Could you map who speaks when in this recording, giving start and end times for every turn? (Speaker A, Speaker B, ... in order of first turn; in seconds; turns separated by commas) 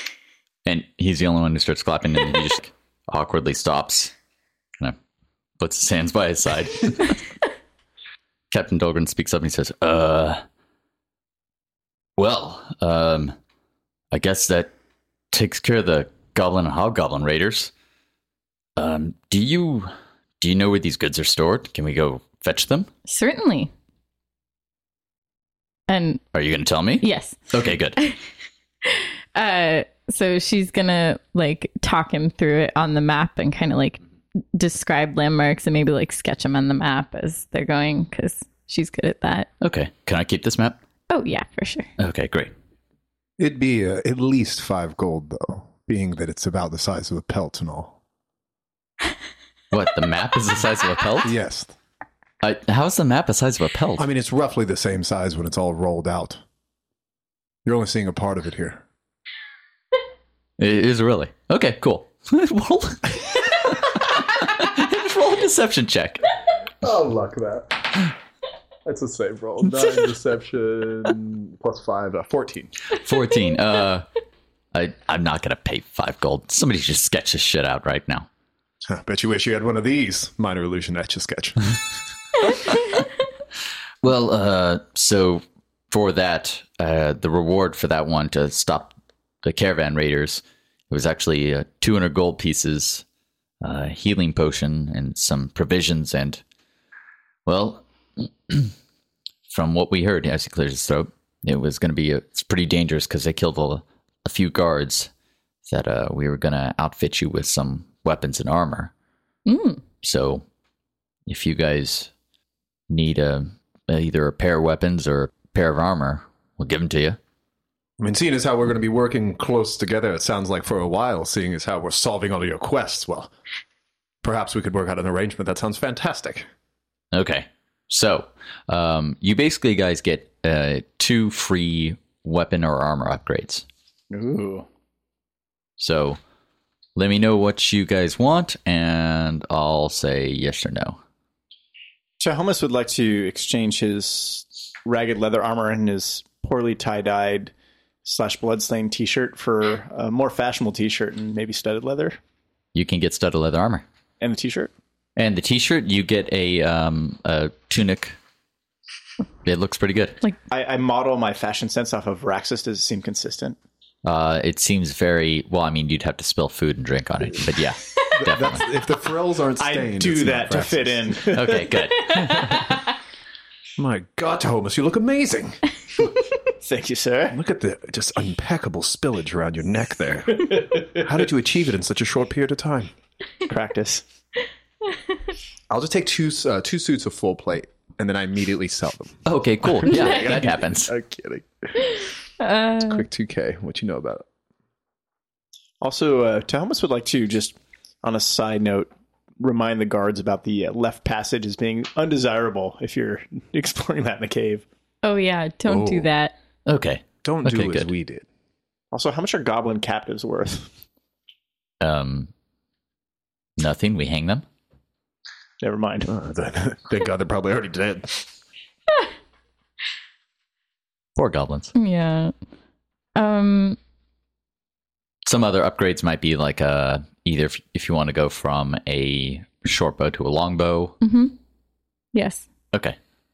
Speaker A: 0.7-4.1, Speaker A: 5.6-7.2, Speaker A: 8.5-10.4, Speaker A: 12.2-13.3, Speaker A: 14.1-14.7, Speaker A: 15.3-17.7, Speaker A: 18.8-22.9, Speaker B: 23.1-23.7, Speaker B: 25.9-26.2, Speaker A: 26.3-28.0, Speaker B: 27.0-27.4, Speaker B: 28.9-34.0, Speaker B: 34.5-39.5, Speaker A: 39.6-40.8, Speaker B: 41.1-41.9, Speaker A: 42.0-42.5, Speaker C: 43.4-48.0, Speaker A: 49.7-51.4, Speaker C: 51.2-51.7, Speaker A: 52.4-54.1, Speaker C: 54.0-56.4, Speaker C: 57.6-58.8, Speaker A: 60.6-66.3, Speaker C: 66.8-68.1, Speaker C: 68.8-72.7, Speaker A: 73.0-74.1, Speaker A: 74.7-78.3, Speaker C: 78.9-81.6, Speaker A: 84.0-93.0, Speaker A: 93.6-96.4, Speaker A: 97.5-98.7, Speaker A: 99.5-105.1, Speaker A: 105.7-108.9, Speaker B: 109.5-109.8, Speaker A: 110.0-110.4, Speaker A: 111.3-112.1, Speaker A: 112.9-117.2, Speaker C: 118.0-123.3, Speaker C: 124.2-126.5, Speaker A: 127.1-133.7, Speaker D: 134.1-134.7, Speaker A: 135.8-136.2, Speaker A: 137.0-141.0, Speaker D: 142.2-147.5, Speaker D: 148.1-152.2, Speaker A: 152.8-153.8, Speaker D: 154.2-154.7, Speaker A: 155.2-158.2, Speaker A: 159.4-160.2, Speaker D: 160.5-163.6, Speaker A: 164.0-168.6, Speaker C: 168.1-171.3, Speaker D: 169.6-171.7, Speaker A: 171.3-172.7, Speaker C: 173.8-175.6, Speaker D: 176.6-177.4, Speaker C: 177.3-182.9, Speaker D: 180.5-180.9, Speaker D: 183.5-184.0, Speaker C: 185.7-191.5, Speaker A: 189.3-190.9, Speaker B: 191.9-193.1, Speaker C: 192.8-194.3, Speaker D: 195.8-204.6, Speaker B: 205.0-206.3, Speaker C: 205.7-206.1, Speaker A: 206.7-207.9, Speaker C: 207.2-208.3, Speaker D: 208.9-210.7, Speaker A: 211.8-212.3, Speaker A: 213.6-214.4, Speaker D: 215.6-216.1, Speaker C: 216.1-218.3, Speaker A: 221.2-221.7, Speaker B: 221.8-222.3, Speaker B: 223.2-223.8, Speaker A: 225.2-231.0, Speaker B: 231.0-231.4, Speaker B: 232.1-232.5